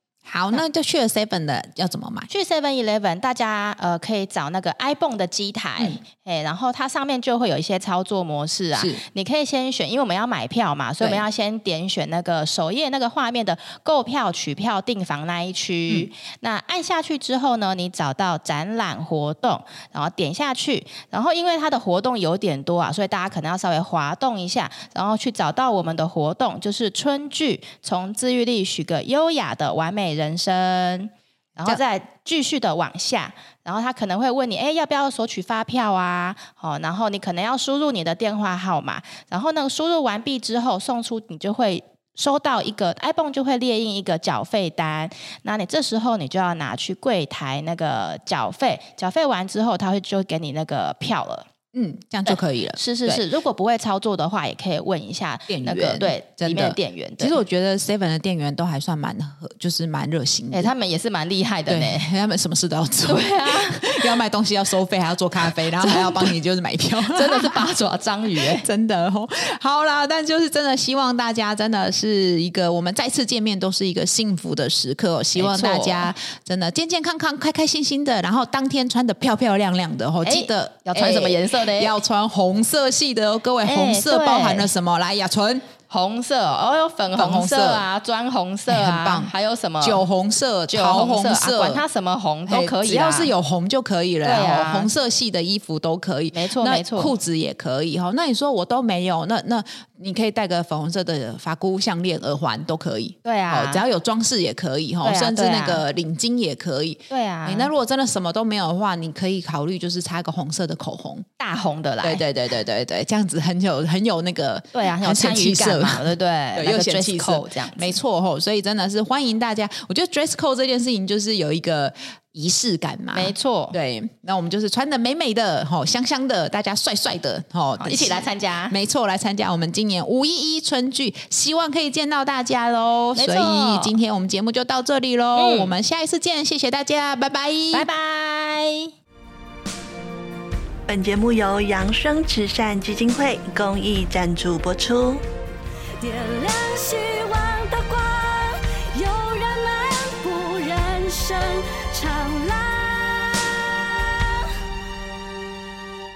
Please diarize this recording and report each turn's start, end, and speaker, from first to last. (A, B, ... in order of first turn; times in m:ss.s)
0:00.3-0:02.3 A
0:02.3-0:51.5 B
0:08.8-0:09.0 A
0:51.7-0:53.2 A
0:52.3-0:57.4 B
0:55.5-1:00.7 A
1:00.5-1:02.1 B
1:01.7-1:07.6 A
1:03.1-1:04.1 B
1:05.7-1:06.4 B
1:07.0-1:08.7 B
1:08.4-1:25.7 A
1:15.4-1:16.1 B
1:20.2-1:22.0 B
1:23.6-1:24.7 B
1:25.9-1:30.0 B
1:27.2-1:27.9 A
1:28.7-1:31.8 A
1:30.7-1:33.3 B
1:32.5-1:51.3 A
1:34.2-1:34.9 B
1:36.3-1:37.1 B
1:43.2-1:43.8 B
1:45.0-1:45.8 B
1:47.1-1:47.7 B
1:51.4-1:52.2 B
1:52.0-2:17.9 A
1:54.7-1:58.0 B
2:03.1-2:03.8 B
2:07.8-2:08.8 B
2:13.2-2:13.9 B
2:15.4-2:15.7 B
2:17.7-2:18.9 B
2:20.9-2:25.2 C
2:26.0-2:34.5 D